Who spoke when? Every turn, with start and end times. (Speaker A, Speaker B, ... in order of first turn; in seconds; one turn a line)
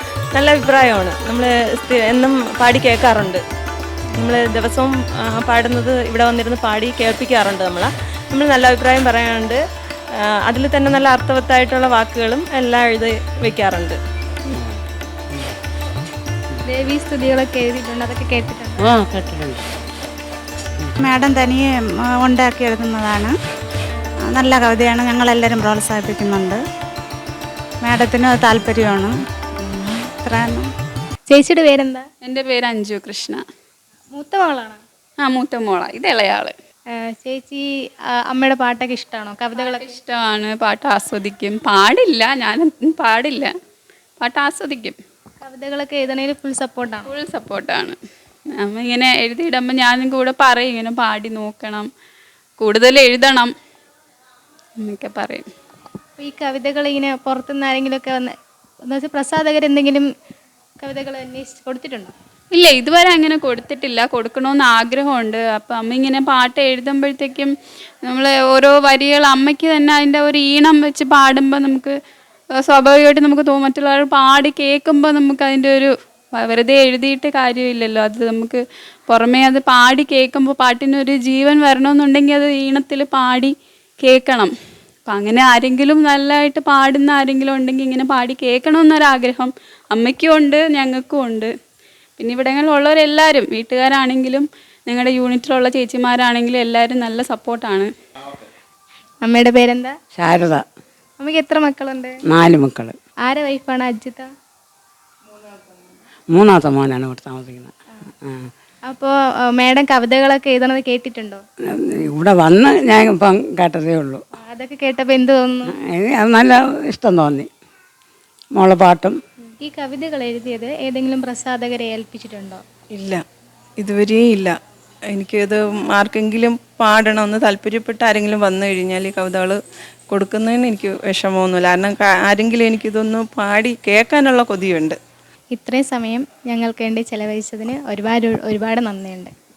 Speaker A: 0.3-3.4
Speaker A: 4.2-9.6
Speaker A: 10.2-14.0
Speaker B: 16.6-18.9
Speaker C: 18.9-19.6
Speaker D: 21.1-21.7
Speaker D: 22.2-23.3
Speaker D: 24.3-26.6
Speaker D: 27.9-29.1
Speaker D: 30.2-30.7
Speaker B: 31.3-32.1
Speaker E: 32.2-33.4
Speaker B: 34.1-34.8
Speaker E: 35.2-36.5
Speaker B: 37.0-37.6
Speaker B: 38.2-40.0
Speaker E: 39.6-43.5
Speaker E: 44.2-45.0
Speaker B: 45.4-47.1
Speaker E: 47.0-48.0
Speaker E: 48.6-51.9
Speaker E: 52.6-53.5
Speaker E: 54.8-55.5
Speaker B: 56.2-58.3
Speaker B: 58.9-60.1
Speaker B: 60.8-62.1
Speaker E: 62.5-67.5
Speaker E: 68.1-71.9
Speaker E: 72.6-75.9
Speaker E: 76.4-84.5
Speaker E: 85.1-91.5
Speaker E: 92.2-97.9
Speaker B: 99.2-99.9
Speaker C: 100.1-100.6
Speaker B: 101.2-102.2
Speaker C: 102.2-103.0
Speaker B: 103.3-104.3
Speaker C: 106.3-108.5
Speaker B: 108.9-111.4
Speaker C: 111.8-114.2
Speaker B: 114.4-115.7
Speaker C: 115.7-117.5
Speaker C: 118.5-119.2
Speaker B: 119.6-122.6
Speaker F: 122.9-123.2
Speaker F: 123.8-124.5
Speaker F: 125.1-129.6
Speaker F: 130.1-135.0
Speaker B: 135.5-139.3